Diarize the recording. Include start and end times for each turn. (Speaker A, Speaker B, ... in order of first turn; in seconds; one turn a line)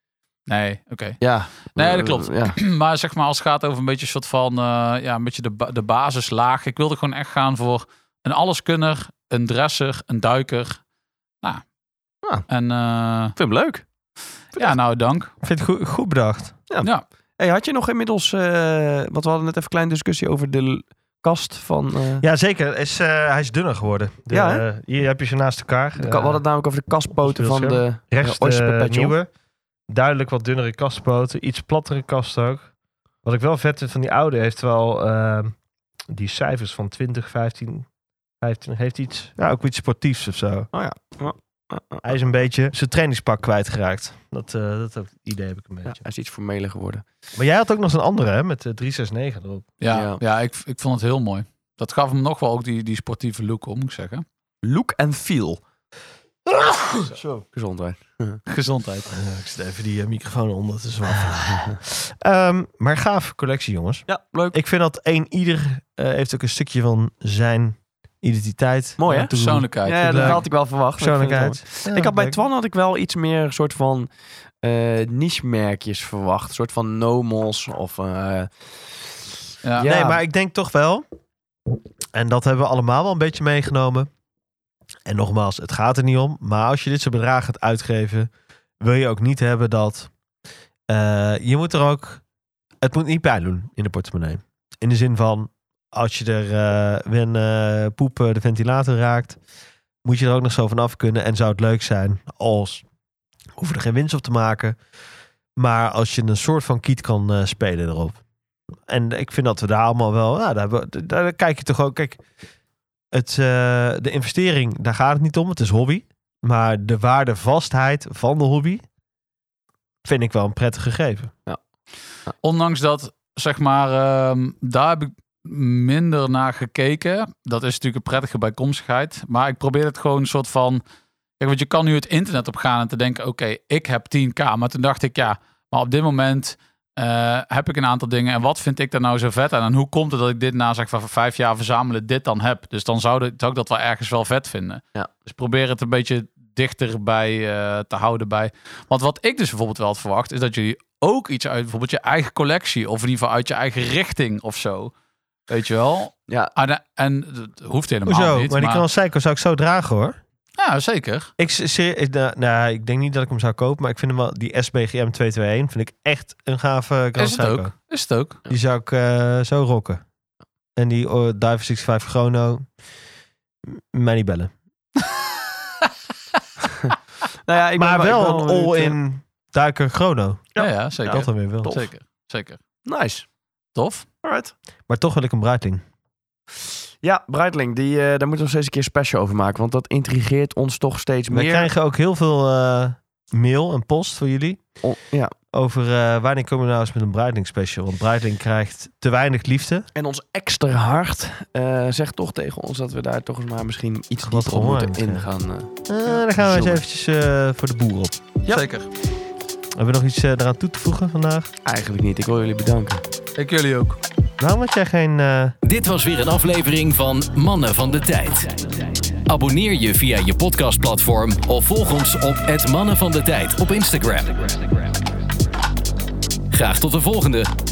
Speaker A: 0.5-10.8
Speaker B: 1.2-2.6
Speaker A: 12.5-13.3
Speaker B: 13.3-13.8
Speaker A: 14.5-15.3
Speaker C: 15.4-16.6
Speaker B: 16.7-22.2
Speaker C: 22.2-26.4
Speaker B: 24.3-24.6
Speaker B: 26.0-29.1
Speaker C: 27.1-29.3
Speaker C: 29.9-32.7
Speaker C: 33.2-35.6
Speaker C: 36.1-37.9
Speaker C: 38.4-40.7
Speaker B: 40.7-42.1
Speaker C: 42.0-46.0
Speaker B: 45.9-47.0
Speaker C: 47.3-49.7
Speaker A: 49.8-54.2
Speaker B: 49.9-50.2
Speaker B: 54.6-55.6
Speaker C: 56.5-57.4
Speaker B: 57.5-58.4
Speaker A: 58.5-59.1
Speaker C: 59.1-72.4
Speaker B: 64.1-64.6
Speaker B: 69.0-79.2
Speaker A: 69.1-70.4
Speaker A: 79.6-79.9
Speaker B: 79.8-80.2
Speaker C: 79.8-81.0
Speaker C: 82.1-84.1
Speaker C: 85.0-90.1
Speaker C: 90.9-92.2
Speaker C: 92.8-99.4
Speaker C: 100.0-102.8
Speaker C: 103.5-104.8
Speaker C: 105.5-108.2
Speaker C: 108.9-112.2
Speaker C: 113.1-118.8
Speaker C: 120.0-121.3
Speaker A: 122.4-130.8
Speaker A: 131.4-154.9
Speaker A: 155.5-158.8
Speaker C: 158.1-160.2
Speaker A: 160.6-161.3
Speaker C: 161.4-167.7
Speaker A: 167.2-168.4
Speaker C: 168.4-170.0
Speaker C: 170.8-172.7
Speaker C: 173.7-174.5
Speaker B: 177.4-178.9
Speaker C: 177.7-181.8
Speaker A: 180.6-182.6
Speaker B: 181.1-181.8
Speaker B: 182.8-183.2
Speaker A: 183.7-184.1
Speaker B: 184.2-184.5
Speaker C: 184.9-185.8
Speaker B: 187.0-191.7
Speaker C: 191.3-194.8
Speaker B: 194.8-195.3
Speaker C: 195.5-199.9
Speaker B: 199.9-206.8
Speaker C: 204.2-205.3
Speaker C: 205.9-208.2
Speaker A: 208.5-208.9
Speaker C: 209.8-211.5
Speaker B: 211.6-213.0
Speaker A: 213.4-214.0
Speaker C: 214.4-215.6
Speaker D: 215.6-218.7
Speaker D: 219.2-224.9
Speaker D: 226.5-227.5